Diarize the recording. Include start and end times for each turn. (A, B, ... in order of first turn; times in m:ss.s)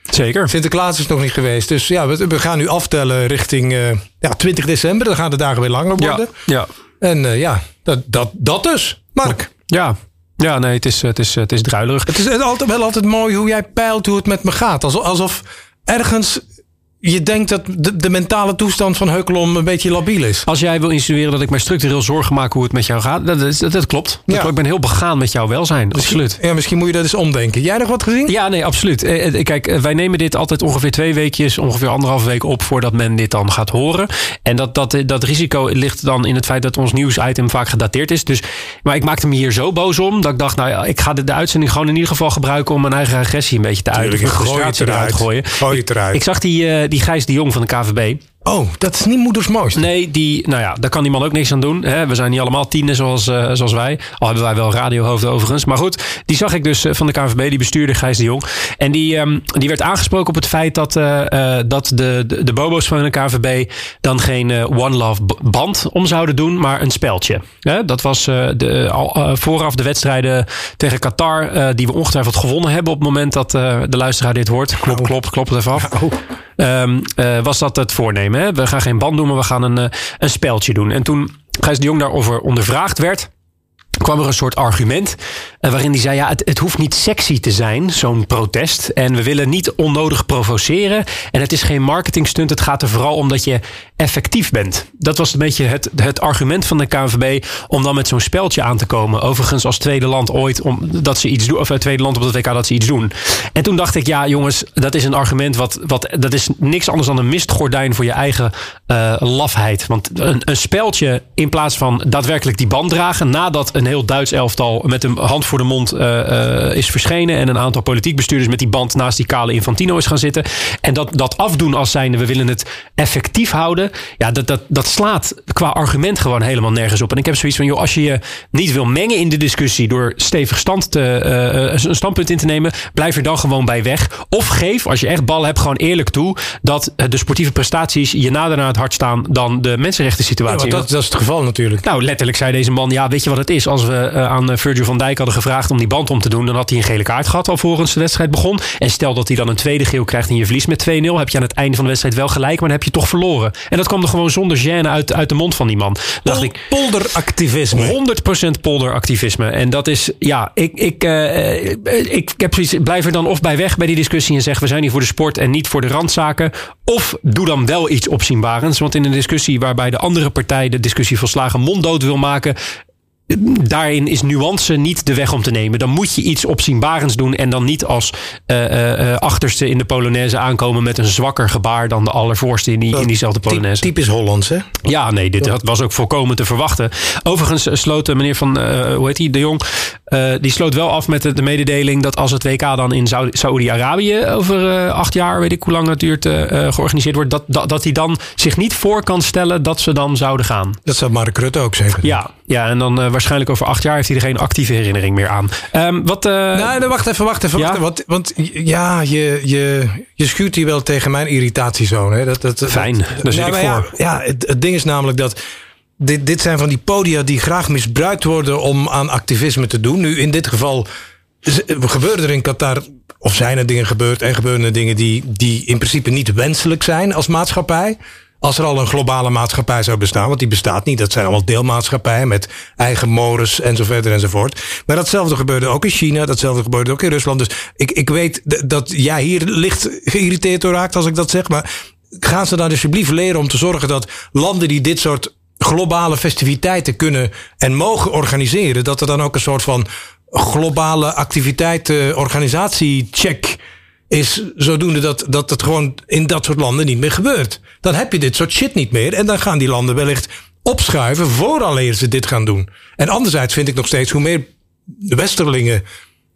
0:00.1-0:00.5 A
0:00.5-0:06.3 B
0:06.0-0:06.7 A
0:07.0-0:09.5 B
0:09.2-0:12.2 A
0:12.1-0:16.4 B
0:17.0-0:20.4 B
0:20.4-0:26.4 A
0:25.9-0:28.3 B
0:28.3-0:48.2 A
0:43.9-0:46.2 B
0:48.4-0:49.8 B
0:49.7-1:16.0 A
1:14.8-1:15.1 B
1:15.9-1:16.2 B
1:16.6-1:23.3 A
1:24.0-2:20.9 A
2:20.5-2:21.8 B
2:21.8-2:36.6 A
2:36.2-2:38.0 B
2:37.7-2:52.6 A
2:53.3-3:03.9 A
3:02.9-3:04.7 B
3:04.8-3:20.8 A
3:20.9-3:22.1 B
3:22.0-3:26.8 A
3:26.5-3:35.4 B
3:32.7-3:33.9 A
3:36.0-3:40.9 B
3:41.4-4:25.8 B